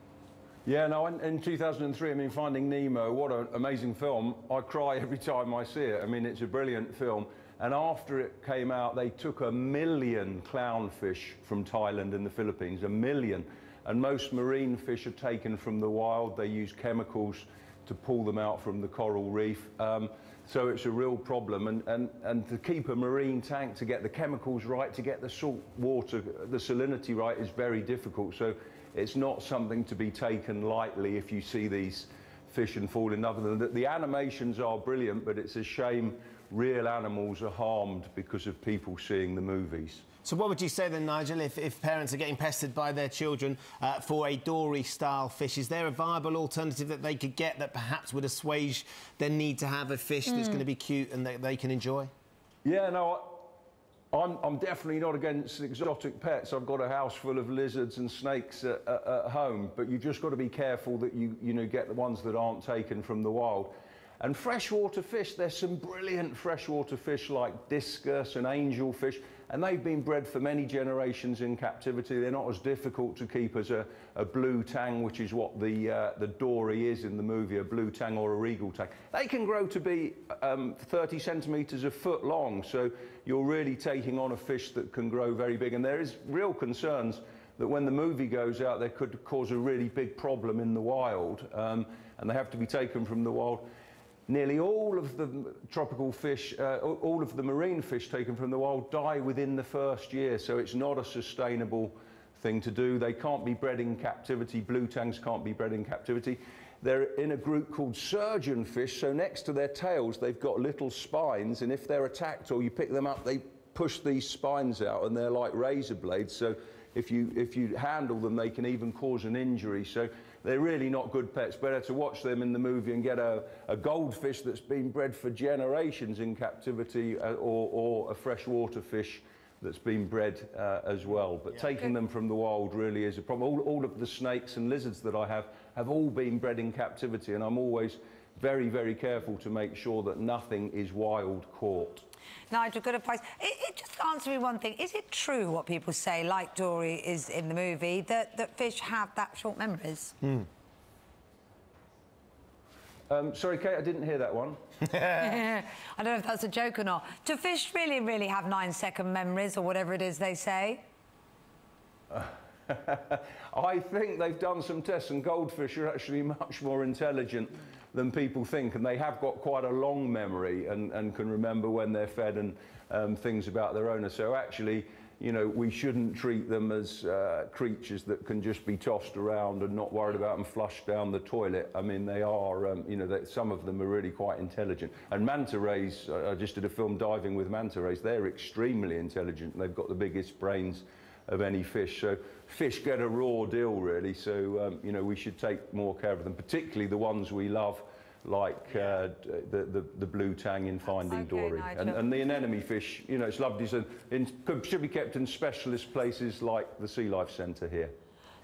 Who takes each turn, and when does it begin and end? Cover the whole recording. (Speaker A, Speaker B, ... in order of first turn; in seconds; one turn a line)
Speaker A: 0.6-40.0
Speaker B: 40.2-52.1
Speaker A: 52.6-53.5
Speaker A: 54.1-93.7
Speaker A: 94.3-142.0
Speaker C: 142.5-150.2
Speaker A: 153.1-154.6
Speaker C: 154.9-160.8
Speaker A: 162.1-207.9
Speaker C: 200.9-202.2